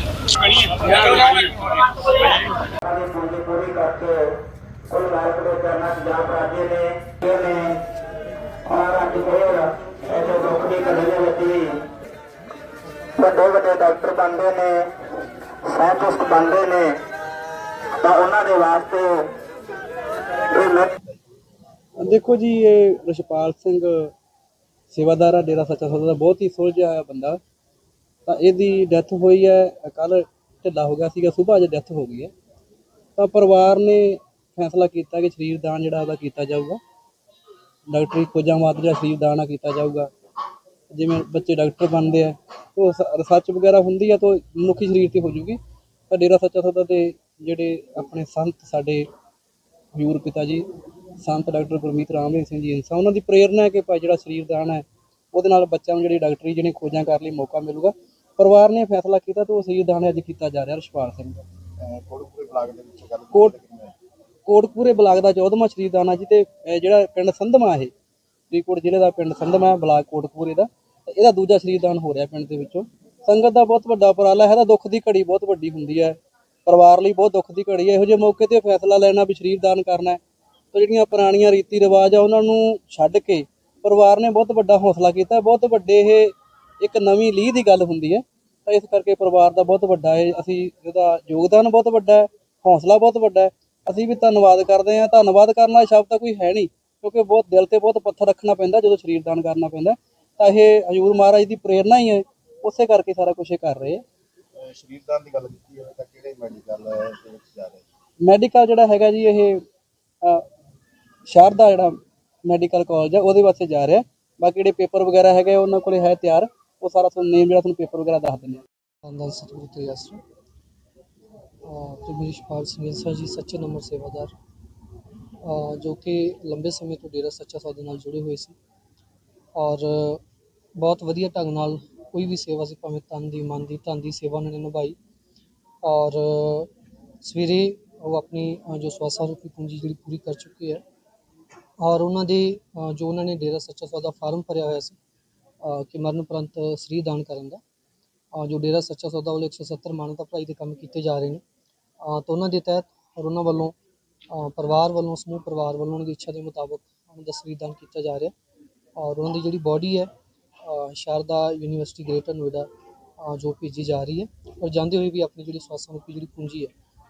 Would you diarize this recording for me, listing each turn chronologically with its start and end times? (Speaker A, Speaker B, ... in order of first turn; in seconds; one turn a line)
Speaker A: 1.0-1.4
Speaker A: 2.8-4.3
Speaker A: 4.9-7.8
Speaker A: 8.7-11.8
Speaker A: 13.2-14.9
Speaker A: 15.7-17.0
Speaker A: 18.0-19.3
Speaker A: 20.5-20.9
Speaker B: 22.0-24.1
Speaker B: 24.9-27.4
Speaker B: 28.3-32.3
Speaker B: 33.2-36.8
Speaker B: 37.9-40.1
Speaker B: 40.9-45.6
Speaker B: 46.1-49.1
Speaker B: 50.0-50.7
Speaker B: 51.2-61.4
Speaker C: 61.8-64.0
Speaker B: 63.3-63.6
Speaker B: 64.5-67.9
Speaker B: 68.5-80.2
Speaker B: 80.7-104.0
Speaker C: 104.6-107.8
Speaker B: 108.2-109.6
Speaker B: 111.3-118.6
Speaker D: 119.0-120.2
Speaker D: 121.6-124.3
Speaker D: 125.4-128.6
Speaker D: 129.6-130.2
Speaker D: 130.8-135.0
Speaker D: 135.8-136.7
Speaker D: 137.2-140.8
Speaker D: 141.8-145.0
Speaker D: 145.6-147.6
Speaker D: 148.3-151.4
Speaker D: 152.0-153.8
Speaker D: 154.3-158.3
Speaker D: 159.0-160.1
Speaker D: 160.6-166.7